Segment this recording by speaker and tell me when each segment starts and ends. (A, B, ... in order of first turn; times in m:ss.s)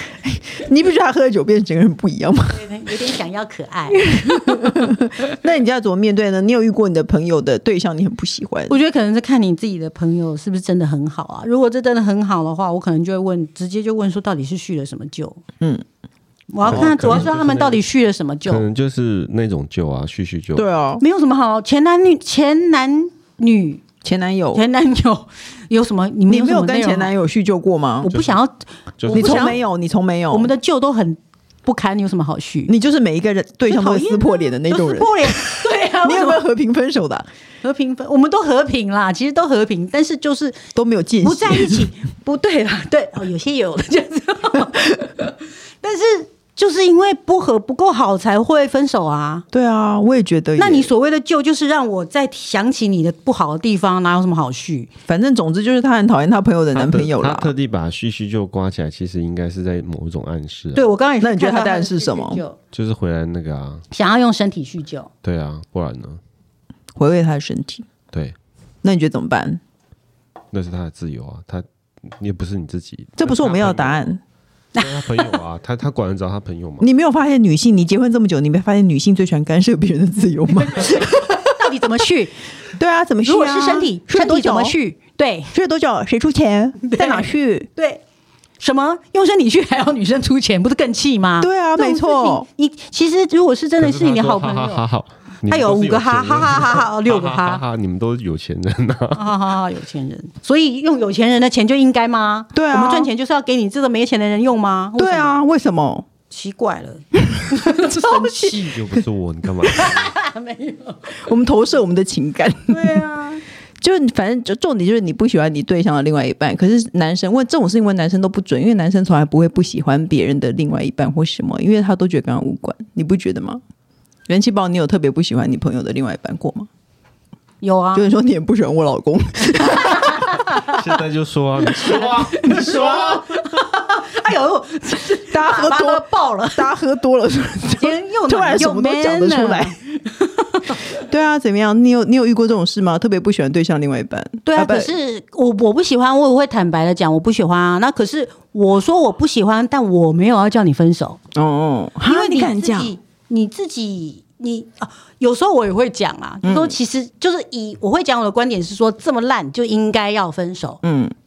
0:00.2-0:02.6 A
0:02.5-0:04.9 B
0:03.9-0:08.7 A
0:08.7-0:15.4 B
0:16.5-0:18.6 B
0:16.6-0:17.8 C
0:16.6-0:17.0 A
0:18.4-0:20.7 C
0:20.6-0:21.0 A
0:21.0-0:23.8 B
0:24.0-0:24.6 A
0:24.5-0:27.1 B
0:26.3-0:28.1 A
0:28.0-0:28.5 B
0:28.1-0:28.4 C
0:29.0-0:29.6 C
0:29.0-0:29.6 B
0:29.1-0:30.5 A
0:30.3-0:32.7 B
0:32.7-0:35.4 A
0:33.7-0:36.4 B
0:36.0-0:37.3 A
0:37.6-0:40.6 B
0:40.7-0:41.9 A
0:41.2-0:49.4 B
0:49.5-0:50.9 A
0:50.6-0:54.9 B
0:55.1-0:57.5 A
0:56.7-1:00.9 C
1:00.7-1:02.6 B
1:01.2-1:02.4 A
1:02.7-1:03.8 C
1:03.9-1:05.1 B
1:05.2-1:06.2 C
1:07.0-1:07.8 A
1:08.8-1:09.6 A
1:10.5-1:14.1 C
1:13.2-1:14.2 A
1:14.7-1:15.4 B
1:14.8-1:16.9 C
1:16.8-1:21.6 A
1:20.7-1:22.4 B
1:22.8-1:24.8 A
1:23.2-1:25.5 B
1:25.5-1:27.7 A
1:26.8-1:28.0 B
1:28.6-1:34.8 B
1:31.4-1:32.4 A
1:33.8-1:39.3 C
1:35.4-1:37.6 B
1:39.1-1:45.4 B
1:42.5-1:43.1 A
1:45.0-1:46.1 A
1:46.3-1:48.9 B
1:47.3-1:48.6 A
1:48.7-1:50.1 C
1:49.6-1:51.2 B
1:51.1-1:53.0 A
1:52.7-1:53.4 B
1:53.8-2:03.6 A
2:04.3-2:06.7 A
2:07.6-2:08.0 B
2:07.9-2:10.7 A
2:09.9-2:10.7 B
2:10.6-2:13.6 C
2:11.7-2:16.7 B
2:15.3-2:19.8 A
2:17.6-2:20.8 B
2:21.0-2:24.9 A
2:24.4-2:31.2 B
2:31.4-2:32.9 A
2:32.0-2:40.8 B
2:36.4-2:36.7 A
2:40.8-2:41.1 A